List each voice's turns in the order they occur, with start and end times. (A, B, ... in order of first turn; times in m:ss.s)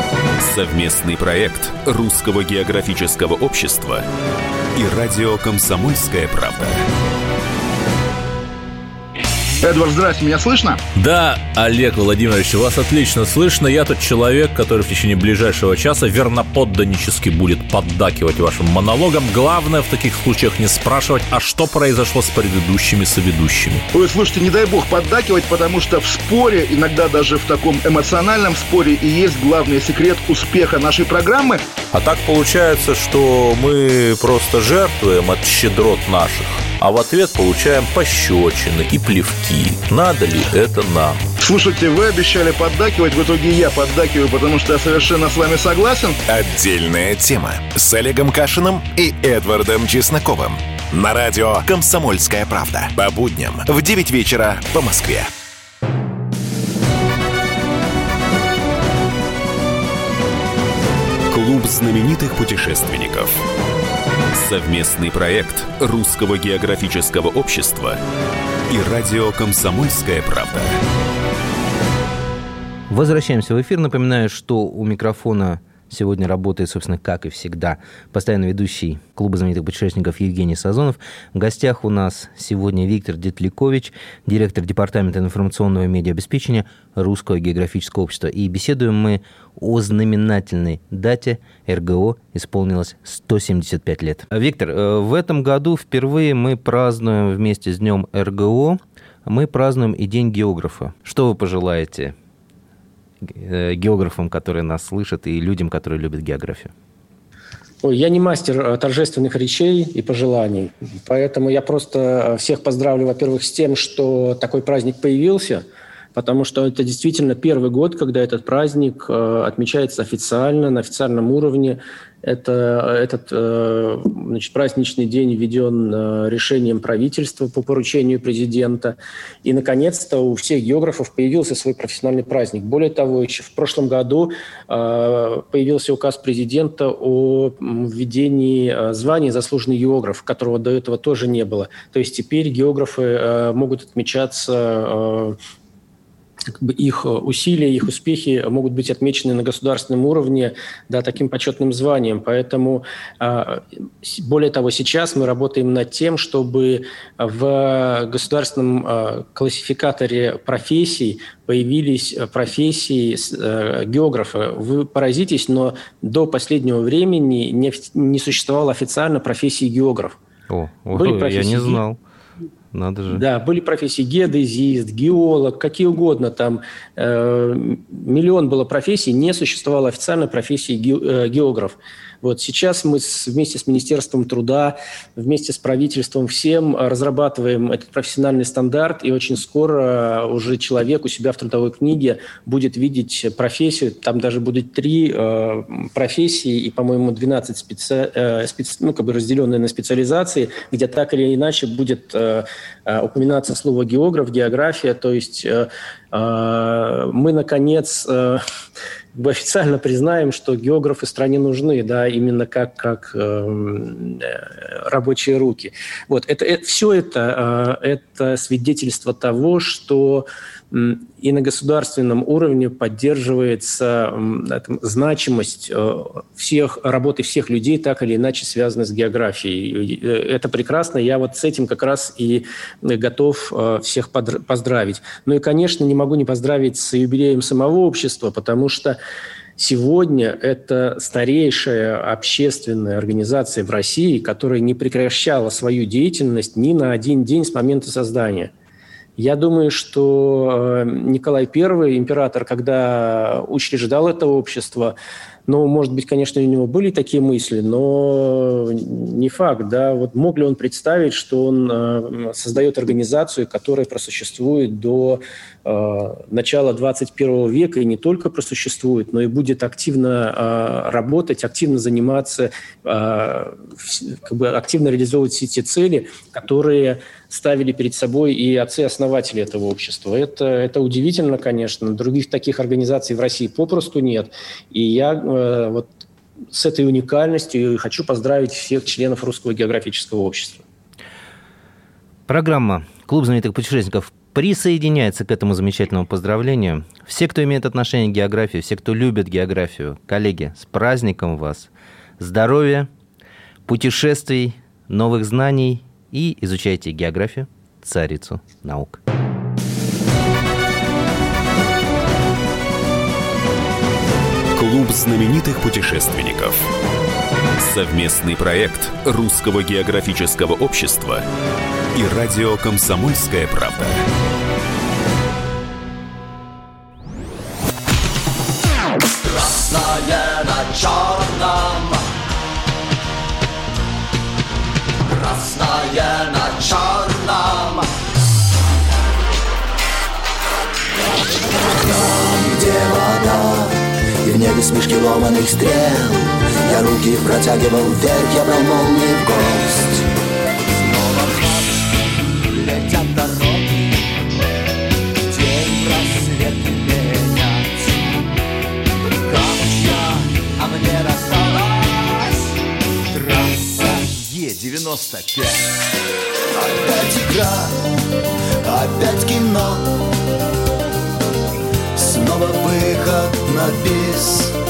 0:00.4-0:04.0 A
0:04.8-0:06.9 A
0:09.6-0:10.8 B
0:11.0-0:23.8 C
0:23.9-0:31.6 B
0:31.9-0:41.2 C
0:41.4-0:46.2 B
0:46.3-0:55.3 D
1:01.3-1:03.4 A
1:04.3-1:08.0 A
1:08.7-1:10.8 A
1:12.9-1:42.2 E
1:43.2-1:46.7 E
1:47.8-1:55.6 F
1:56.2-2:25.4 F
2:26.6-2:50.2 F
2:50.5-2:52.0 E
2:50.9-2:51.8 F
2:52.7-2:53.2 E
2:53.1-3:28.4 F
3:29.1-3:59.0 F
3:59.6-4:08.5 F
4:09.2-4:15.0 F
4:15.5-4:45.9 F
4:46.5-4:50.6 F
4:52.3-5:02.9 E
5:03.7-5:09.0 E
5:14.6-5:16.7 A
5:17.6-5:21.3 A
5:21.9-5:24.1 A
5:29.2-5:32.1 G
5:35.1-5:37.9 G
5:41.6-5:50.1 G
5:50.6-5:54.0 G
5:55.3-5:58.3 G
5:59.2-6:02.5 G
6:03.1-6:05.7 G
6:06.5-6:07.8 G
6:08.6-6:10.0 G
6:12.0-6:14.6 G